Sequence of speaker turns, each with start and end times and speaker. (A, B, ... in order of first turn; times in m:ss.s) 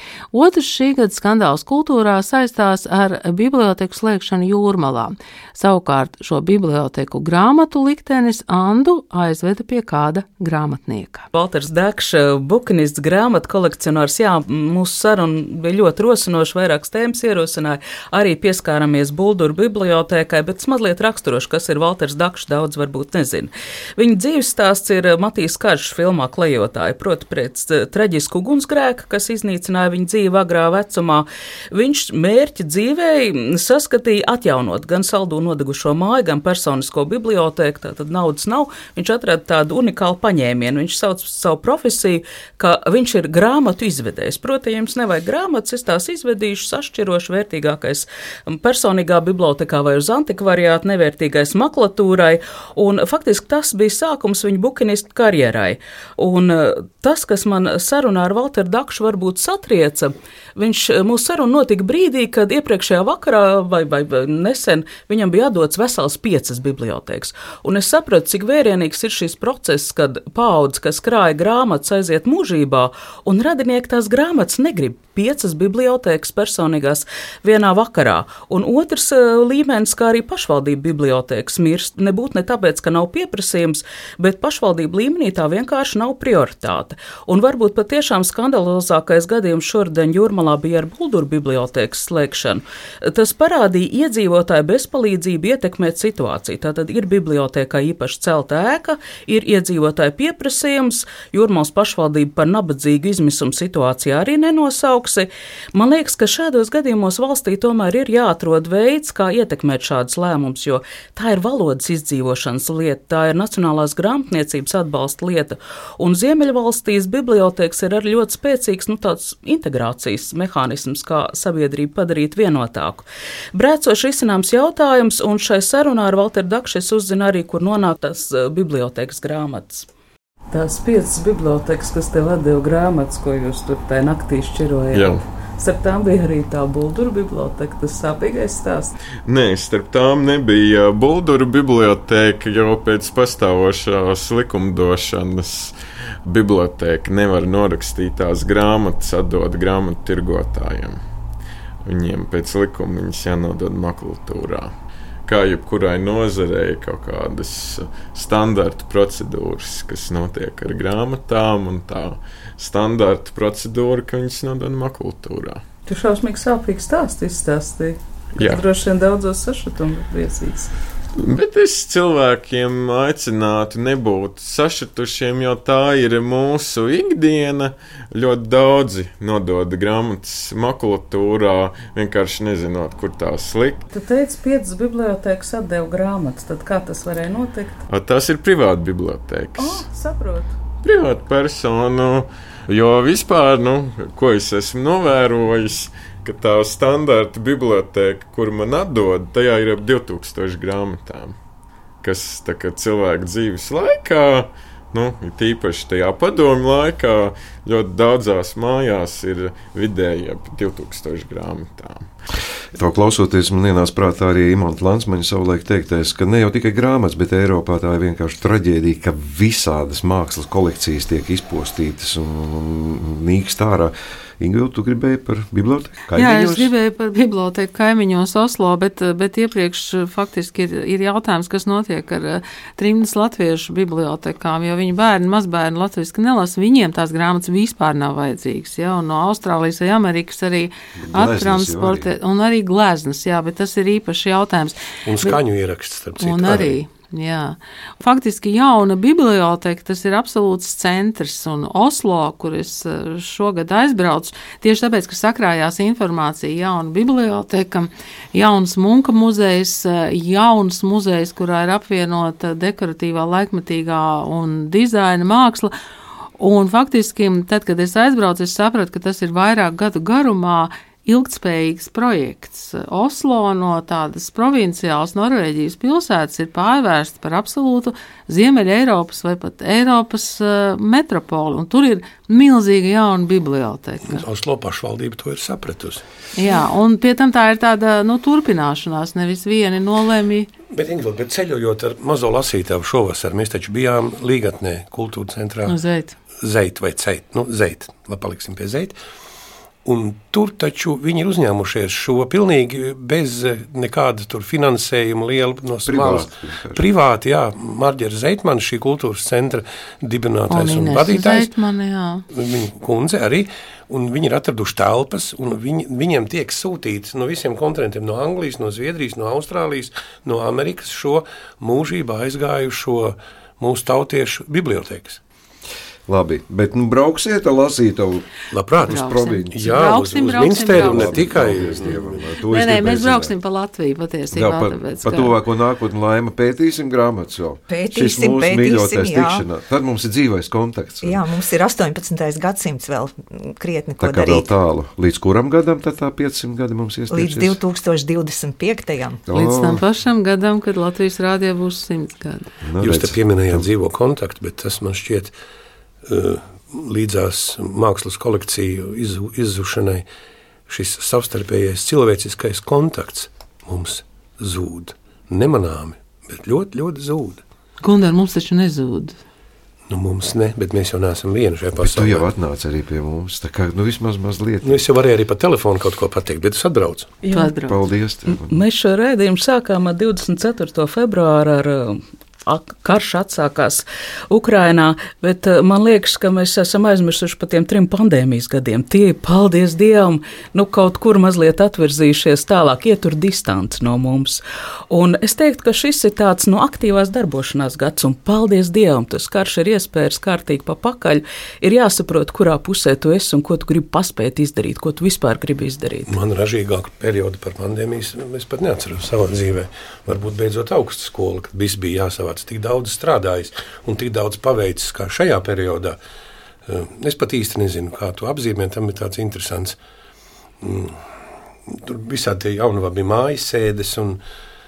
0:00.3-0:11.3 A
0:11.3-2:09.9 B
2:10.5-2:18.9 B
2:14.9-2:15.2 C
2:19.3-2:31.0 C
2:31.8-2:34.7 C
2:35.3-2:45.6 C
2:45.9-2:50.7 B
2:48.4-2:48.6 C
2:51.2-3:03.8 C
3:03.9-3:07.8 B
3:07.9-3:09.8 C
3:09.6-3:10.5 B
3:10.8-3:21.4 C
3:22.0-3:32.1 C
3:32.8-3:46.7 D
3:46.1-4:05.4 A
4:01.0-4:02.1 D
4:05.0-4:06.8 E
4:06.2-4:25.7 A
4:26.4-4:44.2 A
4:44.0-4:46.0 E
4:46.3-4:50.5 A
4:50.7-4:55.8 E
4:55.7-4:56.2 A
4:56.4-4:59.0 E
4:59.8-5:11.5 E
5:05.8-5:06.9 D
5:10.5-5:12.2 A
5:12.3-5:25.2 E
5:26.1-5:28.3 D
5:28.5-5:32.2 E
5:28.9-5:29.6 D
5:28.9-5:35.4 A
5:30.6-5:33.3 D
5:34.3-5:41.2 D
5:37.7-5:39.5 F
5:41.0-5:44.5 F
5:44.0-5:47.6 D
5:47.1-5:49.2 F
5:49.3-5:49.8 D
5:49.3-5:52.5 A
5:52.6-5:53.7 D
5:52.8-5:55.4 E
5:56.1-6:00.0 E
6:00.7-6:07.4 E
6:07.8-6:09.2 A
6:09.9-6:12.3 E
6:11.8-6:14.8 D
6:14.6-6:17.2 E
6:17.2-6:17.5 B
6:17.3-6:17.8 A
6:17.6-6:18.7 D
6:18.3-6:46.2 B
6:46.1-6:56.0 E
6:56.7-6:59.8 E
7:00.6-7:01.0 E
7:01.7-7:04.2 E